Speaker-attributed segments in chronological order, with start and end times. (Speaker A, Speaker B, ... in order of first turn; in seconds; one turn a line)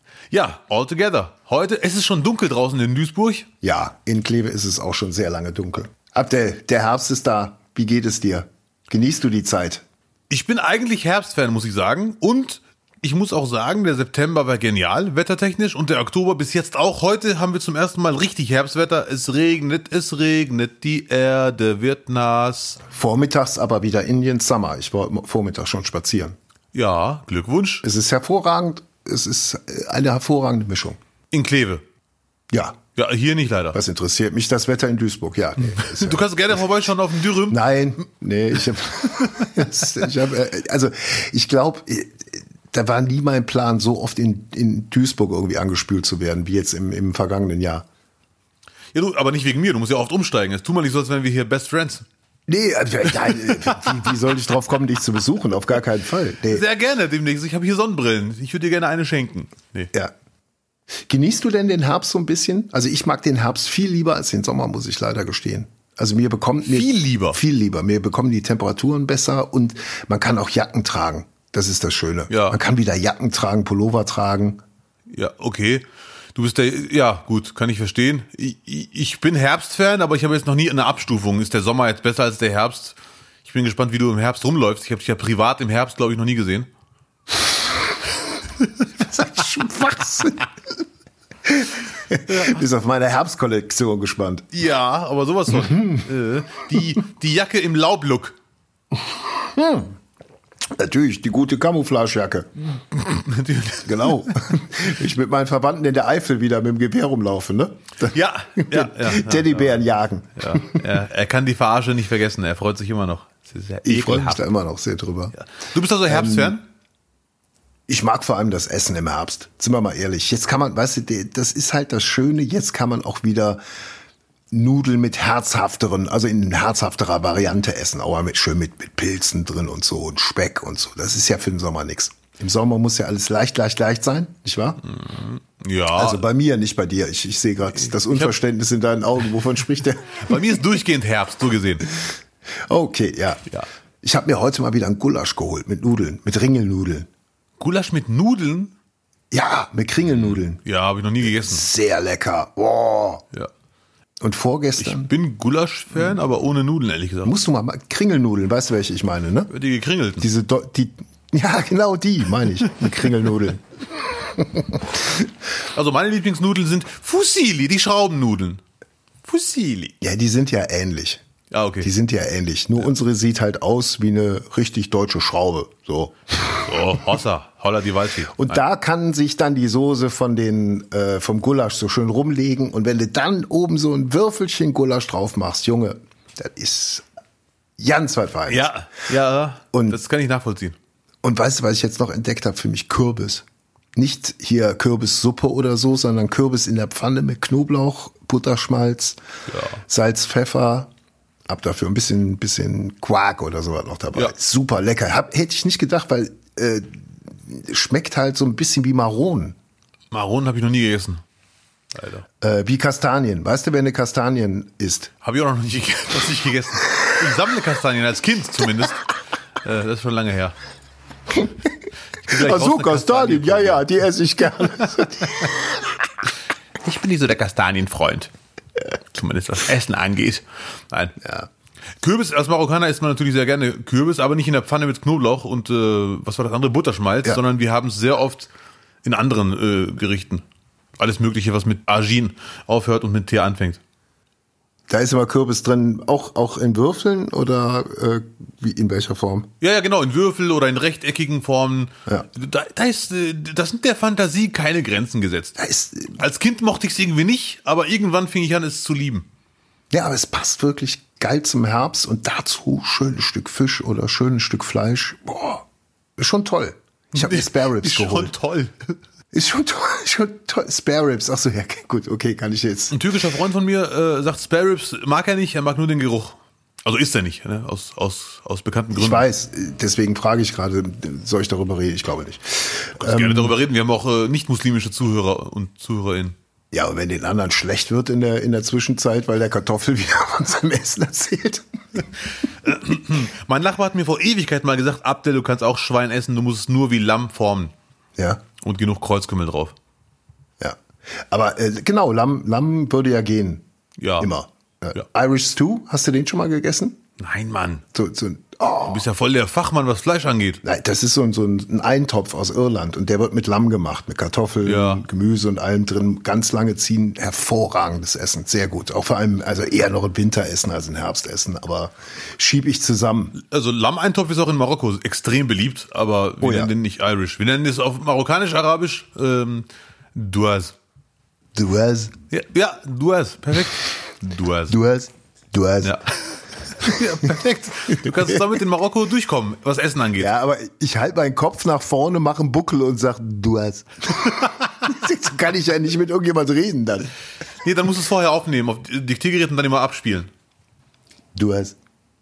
Speaker A: 0.3-3.5
Speaker B: 3.6-9.8
Speaker A: 10.3-22.8
Speaker B: 22.9-26.4
Speaker A: 26.7-27.9
Speaker B: 27.8-31.0
Speaker A: 31.3-31.8
Speaker B: 32.5-32.8
Speaker A: 33.0-33.8
Speaker B: 33.7-36.3
Speaker A: 35.6-37.6
Speaker B: 37.5-47.9
Speaker A: 48.9-52.0
Speaker B: 52.5-56.6
Speaker A: 53.1-53.9
Speaker A: 56.5-59.9
Speaker B: 61.0-74.6
Speaker A: 66.7-67.4
Speaker A: 72.3-72.6
Speaker A: 75.1-86.7
Speaker B: 89.0-90.5
Speaker B: 91.5-94.5
Speaker A: 92.3-92.7
Speaker A: 94.5-98.4
Speaker B: 95.5-96.1
Speaker B: 99.4-99.9
Speaker B: 100.7-102.5
Speaker A: 102.9-104.3
Speaker B: 103.8-110.9
Speaker A: 108.1-109.8
Speaker A: 110.4-114.5
Speaker B: 113.8-115.3
Speaker A: 115.3-116.7
Speaker B: 116.1-116.5
Speaker B: 117.9-123.6
Speaker B: 124.5-134.8
Speaker A: 134.8-136.2
Speaker B: 135.9-140.4
Speaker A: 137.8-138.3
Speaker A: 140.1-141.9
Speaker B: 142.7-143.5
Speaker B: 144.0-147.1
Speaker A: 147.6-148.7
Speaker B: 149.3-150.6
Speaker A: 150.1-151.7
Speaker B: 151.2-153.2
Speaker B: 154.2-155.1
Speaker A: 154.8-157.3
Speaker B: 157.2-159.5
Speaker A: 159.5-160.3
Speaker B: 160.2-165.3
Speaker A: 165.8-168.6
Speaker A: 169.2-169.9
Speaker B: 170.0-171.2
Speaker A: 171.5-171.9
Speaker B: 171.8-177.0
Speaker A: 176.7-178.6
Speaker B: 178.3-187.1
Speaker B: 187.8-188.7
Speaker A: 188.5-190.8
Speaker B: 189.7-190.0
Speaker B: 191.2-193.4
Speaker B: 193.9-199.2
Speaker A: 199.5-199.8
Speaker B: 199.9-200.9
Speaker B: 201.5-209.6
Speaker A: 210.1-211.2
Speaker A: 211.9-212.3
Speaker B: 212.4-215.1
Speaker A: 215.2-219.0
Speaker A: 219.6-220.6
Speaker A: 222.2-223.9
Speaker B: 222.3-225.8
Speaker A: 226.8-228.3
Speaker A: 229.1-231.2
Speaker B: 231.2-231.5
Speaker A: 232.0-238.5
Speaker A: 239.0-240.4
Speaker A: 241.0-243.8
Speaker B: 244.9-249.5
Speaker A: 249.6-255.6
Speaker B: 255.6-256.2
Speaker A: 256.1-259.3
Speaker B: 259.9-265.7
Speaker B: 266.2-268.3
Speaker A: 267.1-268.9
Speaker B: 269.3-273.0
Speaker A: 272.9-279.3
Speaker B: 278.9-283.5
Speaker A: 283.0-286.4
Speaker B: 286.7-291.7
Speaker A: 292.4-297.7
Speaker B: 298.2-298.4
Speaker A: 298.6-299.8
Speaker B: 301.3-303.6
Speaker A: 304.0-304.3
Speaker B: 304.2-307.0
Speaker A: 307.2-307.8
Speaker B: 307.9-309.0
Speaker A: 308.9-310.6
Speaker B: 310.6-323.3
Speaker A: 314.6-315.1
Speaker A: 323.3-330.8
Speaker B: 326.4-326.7
Speaker B: 331.5-332.1
Speaker A: 332.3-334.8
Speaker B: 334.7-336.0
Speaker A: 335.8-340.3
Speaker B: 338.0-338.4
Speaker B: 340.2-347.1
Speaker A: 344.3-344.5
Speaker A: 347.6-350.3
Speaker B: 351.4-351.8